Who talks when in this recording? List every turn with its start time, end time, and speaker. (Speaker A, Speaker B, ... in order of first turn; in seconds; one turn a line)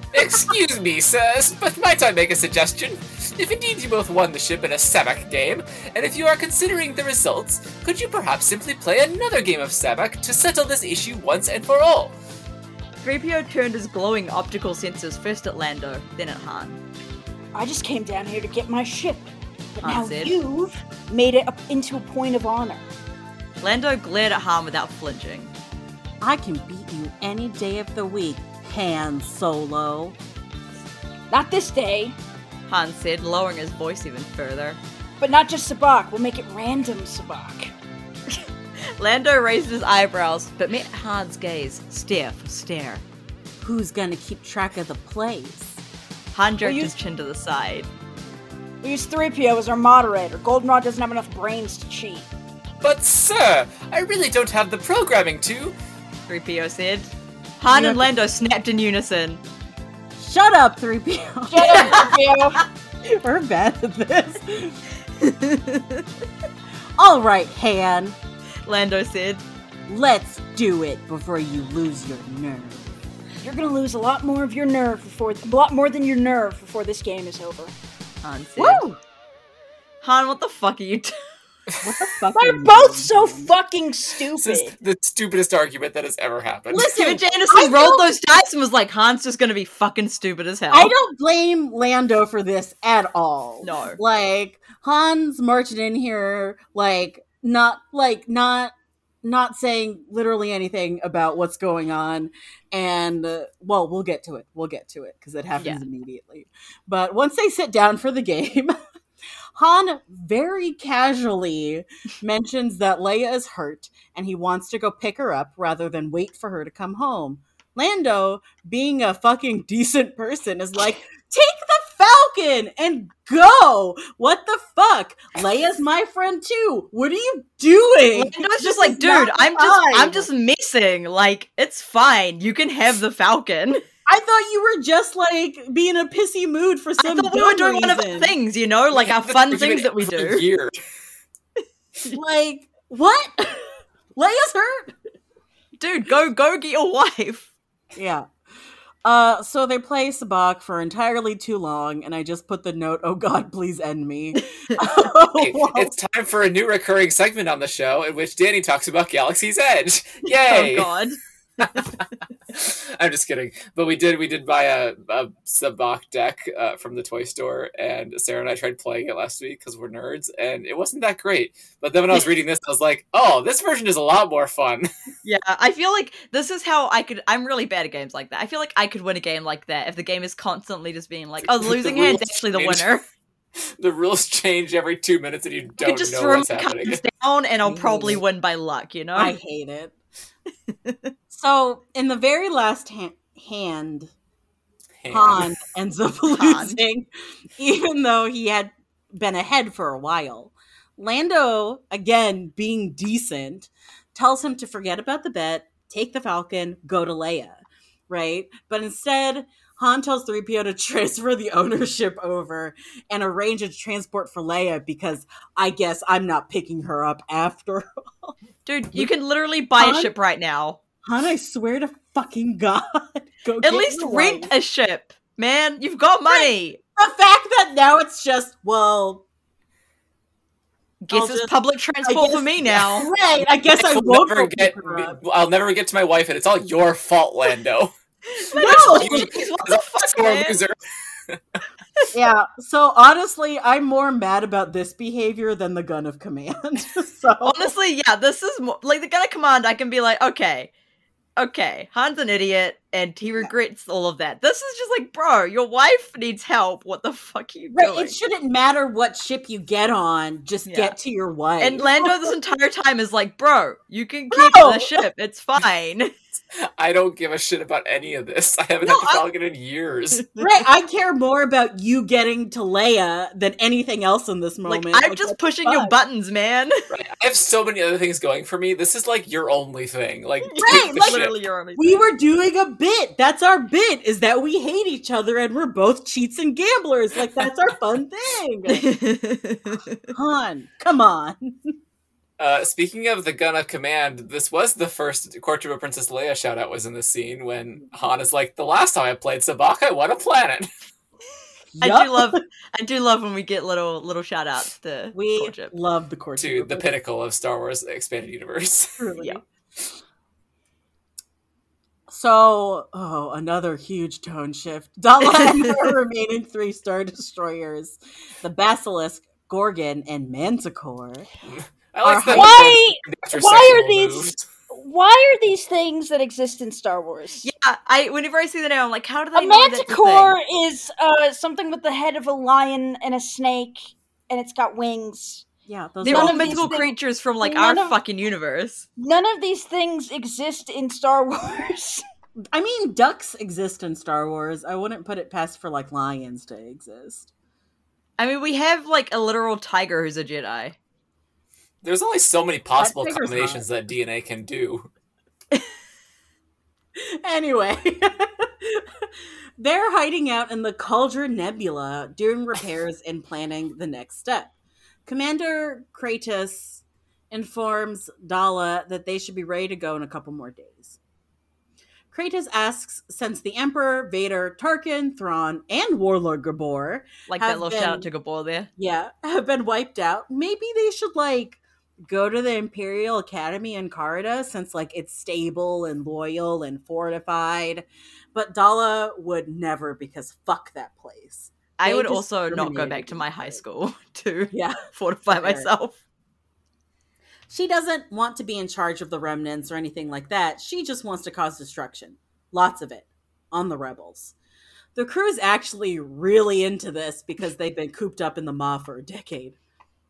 Speaker A: 0.1-12.2
Speaker B: 13.0-16.8
Speaker C: 17.5-22.9
Speaker B: 19.8-20.4
Speaker B: 23.6-25.5
Speaker D: 26.2-30.2
Speaker C: 31.3-32.1
Speaker B: 32.7-34.8
Speaker C: 35.2-37.7
Speaker B: 39.0-43.0
Speaker D: 43.6-45.8
Speaker B: 46.3-47.9
Speaker C: 46.6-46.9
Speaker C: 48.8-52.3
Speaker A: 52.8-55.8
Speaker B: 56.3-59.4
Speaker D: 57.7-58.1
Speaker D: 60.2-62.1
Speaker C: 61.5-62.6
Speaker B: 61.8-62.0
Speaker D: 63.0-64.8
Speaker B: 65.2-66.1
Speaker D: 67.0-68.2
Speaker B: 68.7-69.4
Speaker D: 69.9-73.0
Speaker C: 73.4-77.7
Speaker B: 78.2-78.9
Speaker D: 78.6-78.9
Speaker B: 80.0-81.2
Speaker D: 81.8-83.5
Speaker C: 82.3-84.7
Speaker A: 84.4-86.9
Speaker D: 86.7-88.1
Speaker B: 86.8-90.9
Speaker D: 90.7-108.8
Speaker B: 93.6-94.0
Speaker D: 109.6-130.3
Speaker B: 128.1-133.8
Speaker D: 134.1-138.3
Speaker B: 137.0-140.5
Speaker A: 138.9-140.8
Speaker D: 142.1-144.9
Speaker B: 145.8-147.5
Speaker D: 148.0-148.3
Speaker D: 149.0-155.9
Speaker A: 155.4-160.9
Speaker B: 160.3-161.2
Speaker A: 161.6-174.9
Speaker B: 175.2-183.0
Speaker A: 181.4-182.9
Speaker A: 183.8-187.0
Speaker B: 185.8-189.3
Speaker D: 187.7-188.2
Speaker D: 189.2-189.9
Speaker B: 190.8-191.1
Speaker D: 191.3-194.1
Speaker A: 195.0-195.5
Speaker D: 195.1-218.3
Speaker B: 196.3-196.8
Speaker B: 218.7-220.8
Speaker D: 219.8-220.1
Speaker D: 221.0-224.5
Speaker B: 223.6-226.8
Speaker D: 226.3-229.2
Speaker B: 231.0-233.1
Speaker D: 231.1-231.5
Speaker D: 232.0-235.2
Speaker A: 233.8-237.9
Speaker B: 238.4-240.6
Speaker D: 238.5-239.3
Speaker A: 238.6-240.8
Speaker A: 241.3-241.6
Speaker D: 242.1-247.7
Speaker B: 247.4-250.7
Speaker B: 251.4-258.2
Speaker D: 257.7-262.3
Speaker B: 260.7-261.0
Speaker B: 261.6-266.1
Speaker D: 264.3-265.0
Speaker A: 266.8-270.3
Speaker B: 268.9-269.2
Speaker D: 270.4-275.9
Speaker B: 274.7-276.8
Speaker A: 276.9-281.3
Speaker B: 280.5-282.1
Speaker D: 280.6-288.9
Speaker B: 288.7-290.1
Speaker D: 290.1-291.7
Speaker A: 292.4-300.7
Speaker D: 301.7-302.4
Speaker B: 301.8-305.7
Speaker D: 305.1-306.9
Speaker A: 306.4-309.0
Speaker D: 309.0-309.4
Speaker D: 312.1-321.3
Speaker A: 321.5-324.4
Speaker D: 322.0-322.7
Speaker C: 322.3-327.5
Speaker B: 327.4-330.4
Speaker C: 329.4-335.5
Speaker D: 335.7-336.8
Speaker C: 336.0-336.9
Speaker B: 336.0-338.9
Speaker D: 337.4-337.9
Speaker C: 339.0-342.0
Speaker D: 342.5-347.3
Speaker B: 348.2-350.8
Speaker A: 351.8-354.9
Speaker D: 352.8-353.6
Speaker D: 357.0-358.9
Speaker D: 359.6-364.5
Speaker D: 365.1-371.0
Speaker D: 372.1-378.1
Speaker B: 377.3-378.7
Speaker D: 378.8-393.6
Speaker B: 391.8-396.0
Speaker D: 394.5-395.7
Speaker D: 397.5-404.3
Speaker D: 404.9-409.6